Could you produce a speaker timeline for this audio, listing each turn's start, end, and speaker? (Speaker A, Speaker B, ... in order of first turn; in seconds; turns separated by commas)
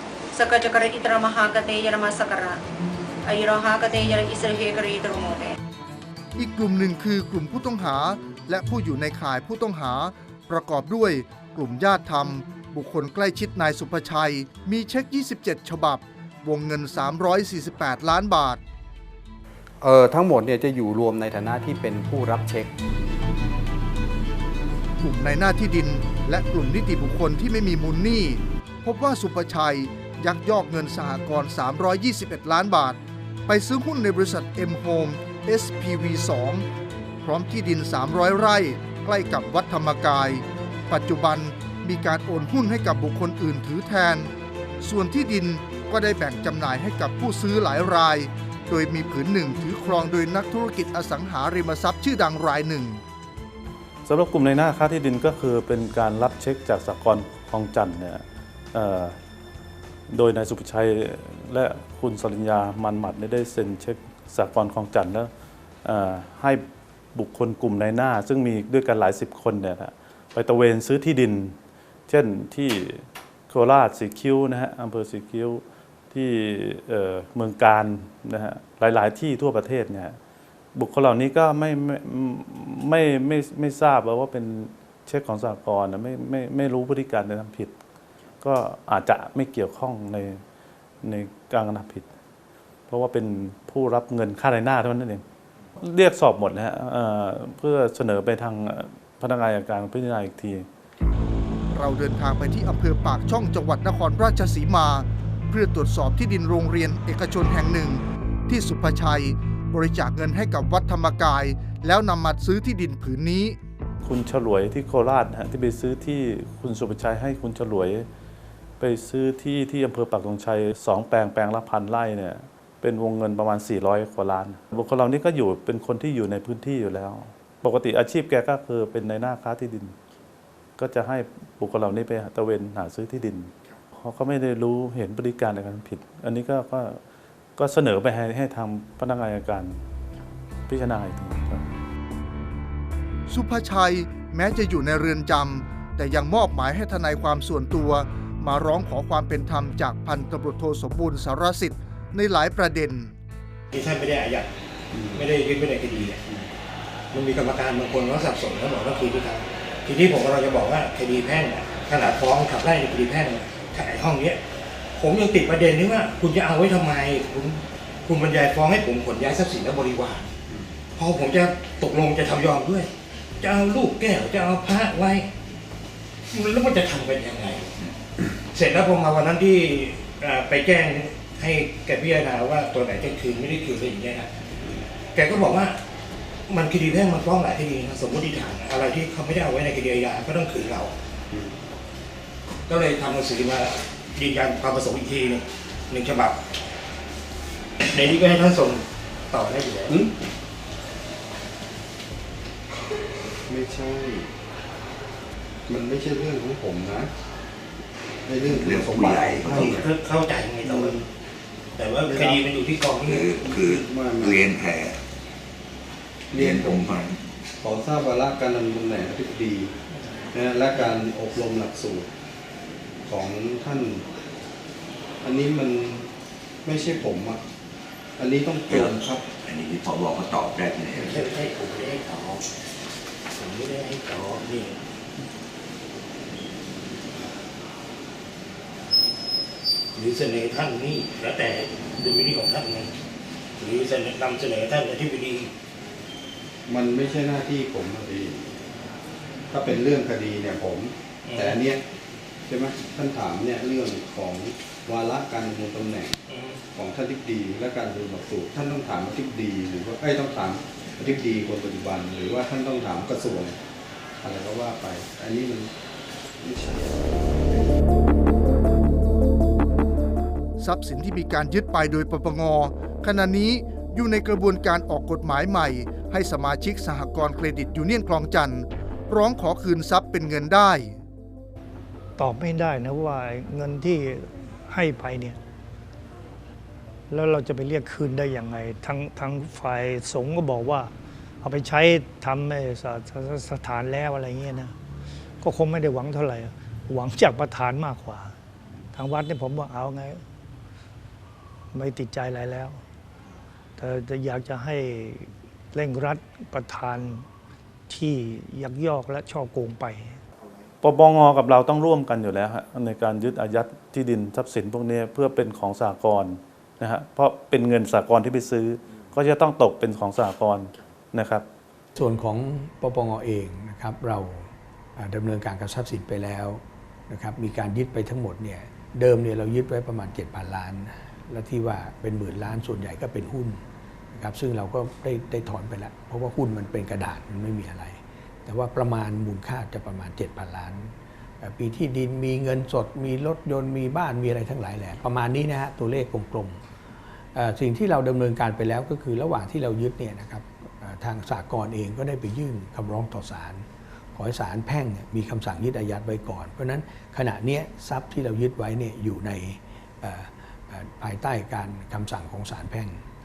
Speaker A: 0.3-2.6, Speaker A: 3.2-5.5, Speaker B: 6.3-18.6, Speaker C: 19.8-22.7, Speaker B: 25.0-36.6, Speaker B: 37.2-53.0, Speaker D: 54.0-59.2, Speaker D: 60.1-65.3, Speaker D: 65.8-66.6, Speaker D: 67.1-71.5, Speaker D: 72.1-80.2, Speaker D: 80.7-87.7, Speaker D: 88.4-90.4, Speaker D: 91.0-92.1, Speaker D: 92.9-95.2, Speaker D: 95.8-100.7, Speaker B: 101.7-113.6, Speaker D: 114.0-118.1, Speaker D: 118.8-129.9, Speaker D: 130.8-137.0, Speaker D: 137.6-139.8, Speaker D: 140.7-141.6, Speaker B: 143.3-153.1, Speaker E: 153.7-154.5, Speaker C: 154.9-155.2, Speaker E: 155.1-156.2, Speaker E: 157.1-164.4, Speaker E: 164.9-170.3, Speaker E: 170.9-172.9, Speaker E: 173.4-175.3, Speaker E: 176.3-177.7, Speaker E: 178.5-184.3, Speaker E: 185.1-185.8, Speaker E: 186.5-190.9, Speaker E: 192.7-196.4, Speaker E: 197.8-200.1, Speaker C: 203.5-204.3, Speaker C: 205.7-207.1, Speaker C: 208.2-209.9, Speaker F: 208.6-209.6, Speaker E: 209.4-211.1, Speaker C: 210.6-211.0, Speaker E: 211.8-213.4, Speaker C: 212.0-212.4, Speaker F: 213.1-214.9, Speaker C: 213.3-214.6, Speaker C: 216.3-217.1, Speaker F: 216.4-217.2, Speaker C: 217.6-219.7, Speaker C: 220.3-222.1, Speaker C: 223.1-224.0, Speaker C: 225.2-226.1, Speaker C: 226.6-227.4, Speaker C: 228.2-229.2, Speaker F: 228.7-231.1, Speaker E: 230.8-232.4, Speaker E: 233.3-234.8, Speaker E: 239.9-242.9, Speaker E: 243.6-245.5, Speaker C: 246.7-248.6, Speaker C: 249.5-251.8, Speaker E: 251.3-251.6, Speaker C: 252.5-256.1, Speaker E: 256.3-256.6, Speaker C: 256.7-263.6, Speaker C: 264.2-265.7, Speaker C: 266.4-267.0, Speaker B: 270.6-281.0, Speaker G: 282.2-285.4, Speaker G: 287.1-294.7, Speaker G: 295.4-298.4, Speaker G: 298.9-300.2, Speaker G: 301.7-302.8, Speaker G: 303.8-307.2, Speaker G: 307.9-310.2, Speaker D: 310.8-321.4, Speaker H: 321.9-346.6, Speaker H: 347.3-363.0